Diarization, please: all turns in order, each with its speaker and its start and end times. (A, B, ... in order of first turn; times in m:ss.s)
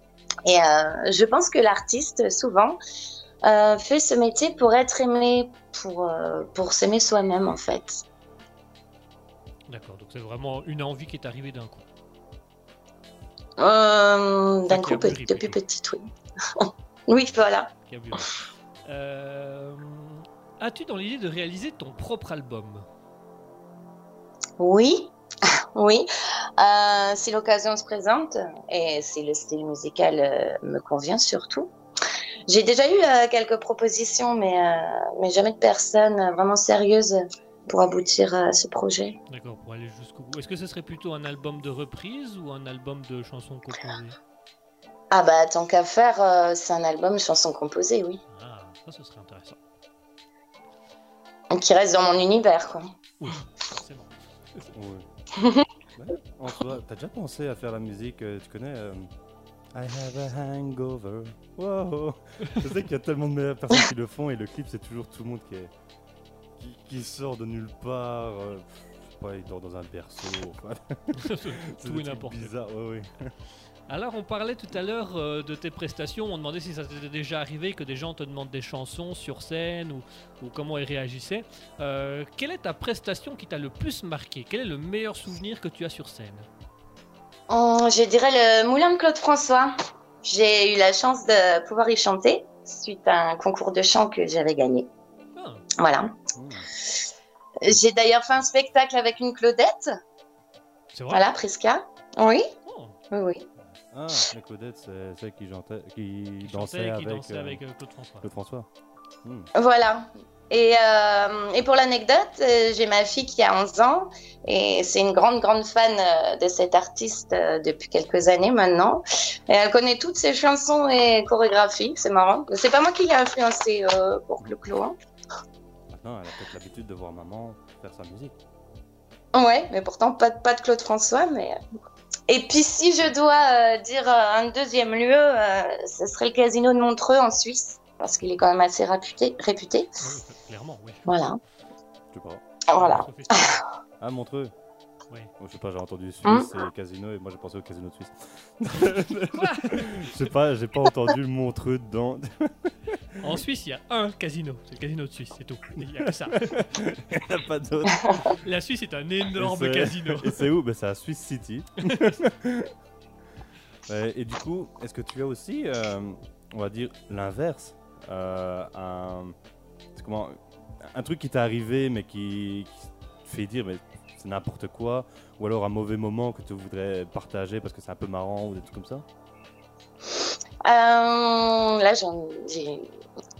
0:00.4-0:02.8 A
0:03.4-0:08.0 A
0:09.7-0:11.8 B
0:13.6-0:17.7 A
0:14.7-0:15.6 B
0:17.9-0:18.3 B
0:18.8-0:22.8 B
0:24.6-0:25.1 A
0:25.7-0:26.1 A
0:26.6-0:31.7 A
0:32.5-0:39.2 A
0:39.3-0:44.2 B
0:45.1-0:48.2 A
0:48.3-0:49.6 B
0:51.5-0:52.9 A
0:53.2-0:54.7 B
0:54.7-0:55.1 C
0:55.4-0:55.7 A
0:56.0-0:59.1 C
0:59.7-1:05.7 C
1:06.6-1:13.3 C
1:11.2-1:12.5 B
1:13.9-1:26.5 B
1:27.5-1:34.9 A
1:35.4-1:35.6 B
1:35.8-1:36.1 A
1:36.3-1:36.7 C
1:37.6-1:39.9 A
1:40.9-1:41.2 B
1:41.1-1:42.5 A
1:42.6-1:43.0 B
1:43.1-1:43.4 A
1:43.9-1:47.6 C
1:46.4-1:48.3 B
1:48.2-1:48.7 C
1:49.2-1:49.5 C
1:49.5-2:05.0 A
2:05.9-2:08.4 C
2:09.3-2:11.6 A
2:12.3-2:19.9 A
2:20.0-2:21.1 B
2:21.0-2:21.4 A
2:22.1-2:22.4 C
2:22.7-2:23.4 A
2:22.7-2:23.6 B
2:24.0-2:24.5 C
2:25.4-2:32.7 C
2:29.3-2:30.1 B
2:33.2-2:36.8 B
2:35.8-2:38.1 C
2:38.4-2:40.4 B
2:39.3-2:42.7 C
2:41.9-2:42.2 B
2:43.9-2:49.4 C
2:49.9-2:59.0 C
3:00.6-3:02.9 A